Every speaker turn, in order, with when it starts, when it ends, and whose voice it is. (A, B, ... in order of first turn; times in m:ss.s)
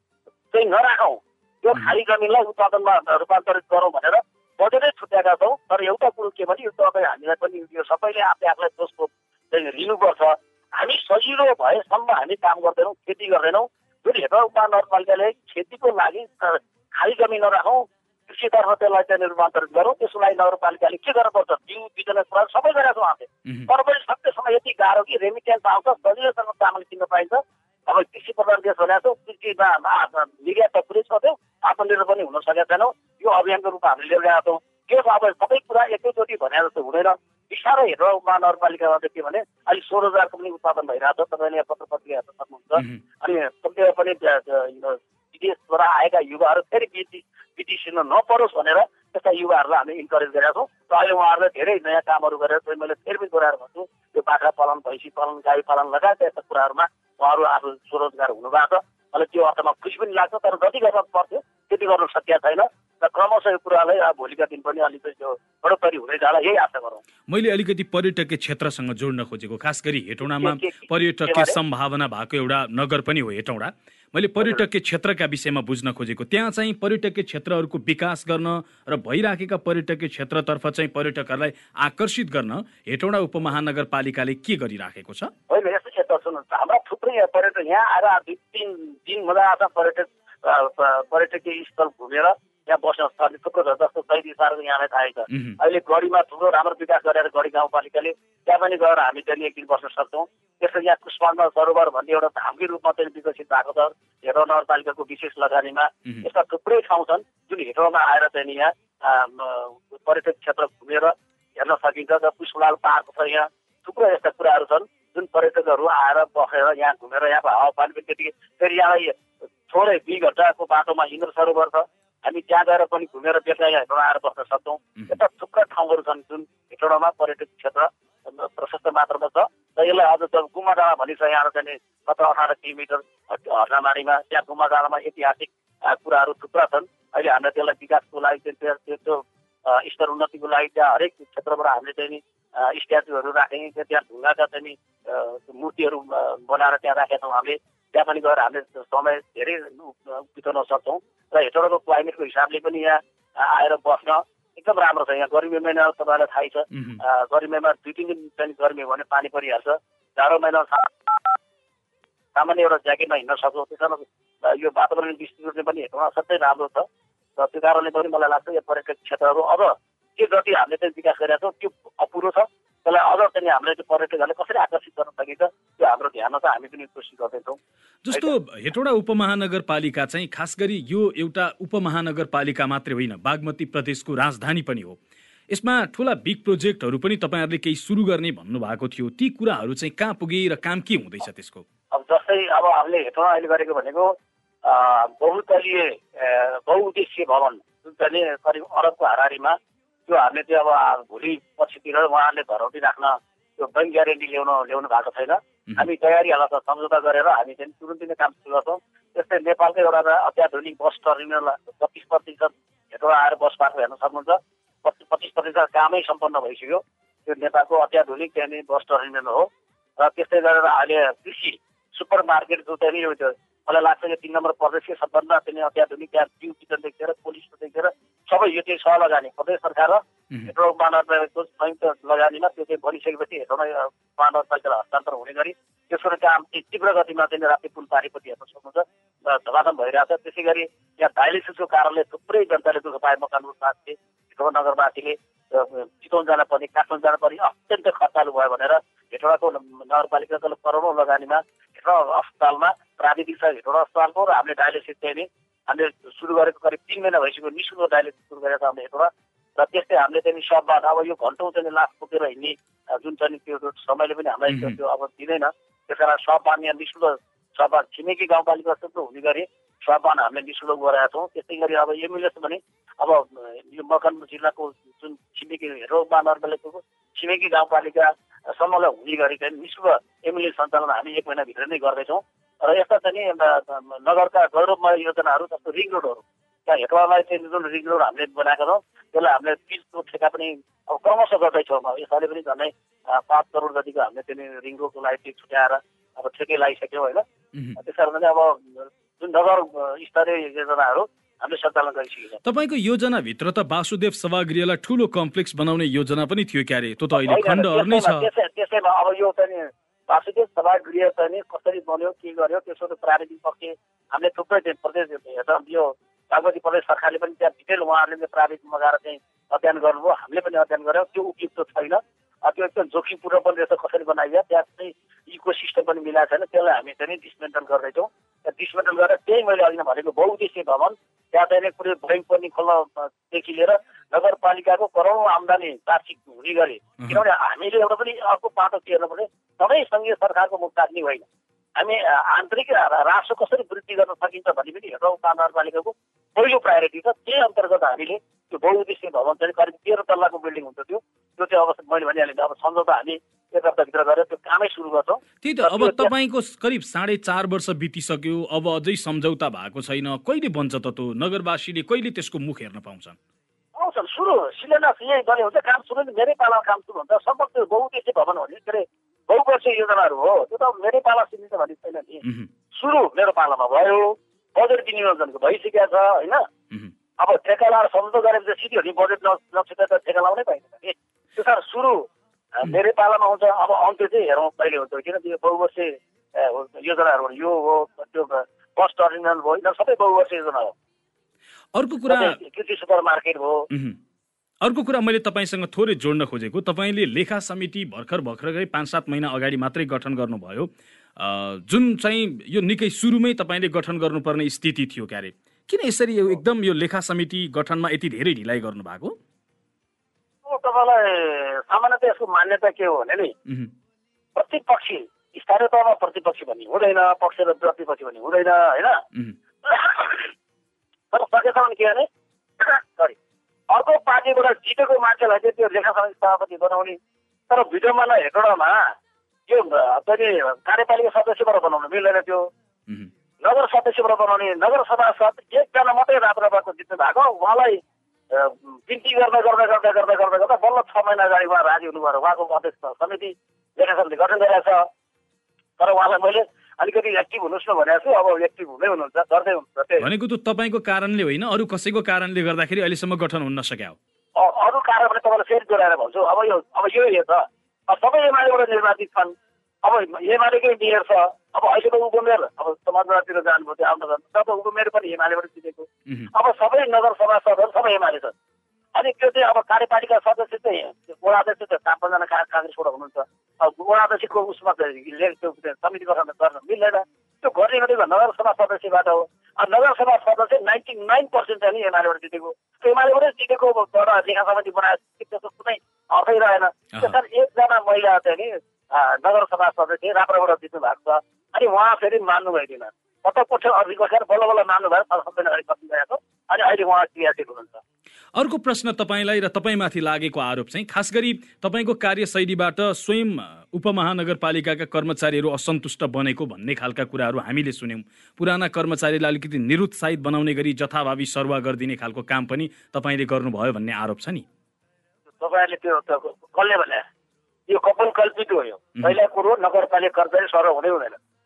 0:00.5-1:07.0 A
0:42.8-0:43.0 B
1:07.3-1:25.3 B
1:10.2-1:11.6 A
1:25.5-1:59.2 A
1:35.3-1:35.6 B
1:59.7-2:41.3 A
2:36.7-2:37.0 B
2:42.4-2:46.9 A
2:47.4-2:57.6 A
2:58.0-3:05.0 B
3:05.5-3:11.6 B
3:11.9-4:57.2 A
4:24.5-4:24.8 B
4:57.5-4:57.8 B
4:57.8-5:02.4 A
5:02.4-5:08.3 B
5:07.2-5:41.3 A
5:41.8-5:56.1 A
5:55.4-6:03.2 B
6:03.8-6:12.2 A
6:12.2-6:12.5 B
6:12.7-6:16.4 A
6:17.2-6:22.0 A
6:22.5-6:30.7 A
6:31.8-6:32.4 B
6:32.1-6:33.7 A
6:33.7-6:34.0 B
6:34.6-6:49.2 B
6:50.4-6:53.3 A
6:53.5-6:53.7 B
6:54.4-6:59.0 A
6:59.6-7:00.3 A
7:01.1-7:02.1 A
7:02.6-7:03.2 A
7:03.7-7:07.0 A
7:07.5-7:08.7 A
7:09.5-7:12.5 A
7:13.4-7:17.8 A
7:18.3-7:24.9 A
7:25.8-7:30.1 A
7:30.0-7:34.0 B
7:34.4-7:48.3 A
7:49.0-8:17.8 A
8:18.4-8:34.5 B
8:35.4-8:37.1 A
8:37.7-8:41.2 A